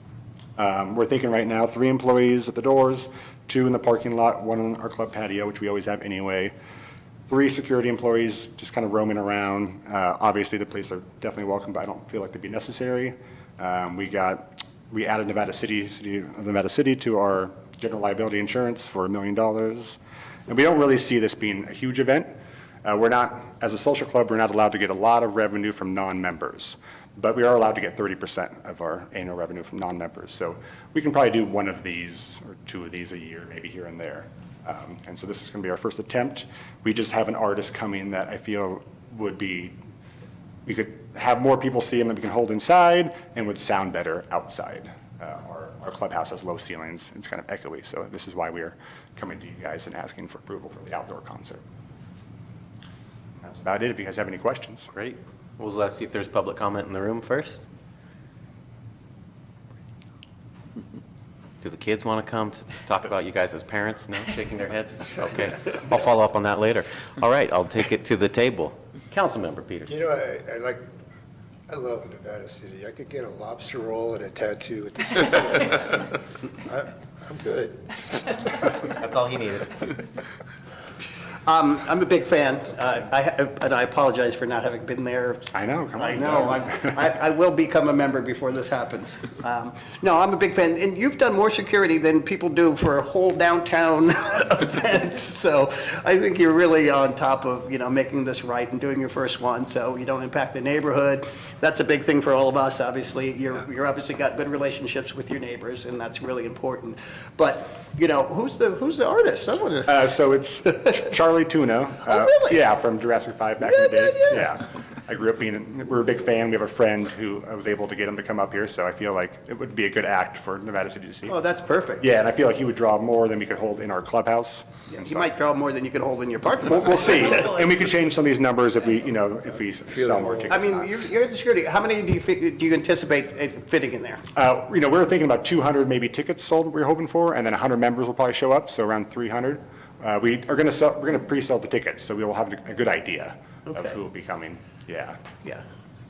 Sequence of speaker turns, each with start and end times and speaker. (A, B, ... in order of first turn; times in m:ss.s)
0:00.6-0:06.5 A
0:07.3-0:22.3 A
0:22.8-0:39.8 A
0:40.7-0:51.6 A
0:53.4-0:54.9 A
0:54.9-0:57.6 B
1:01.6-1:09.9 B
1:09.9-1:10.8 C
1:11.7-1:18.5 C
1:18.8-1:19.9 B
1:21.5-1:50.0 D
1:25.5-1:26.9 A
1:49.9-2:01.4 A
1:52.1-1:52.6 D
1:53.6-1:54.4 D
2:01.3-2:02.0 D
2:02.0-2:05.3 A
2:04.9-2:07.5 D
2:06.7-2:10.9 A
2:09.9-2:10.5 C
2:10.5-2:14.2 D
2:14.4-2:25.2 A
2:23.7-2:24.0 D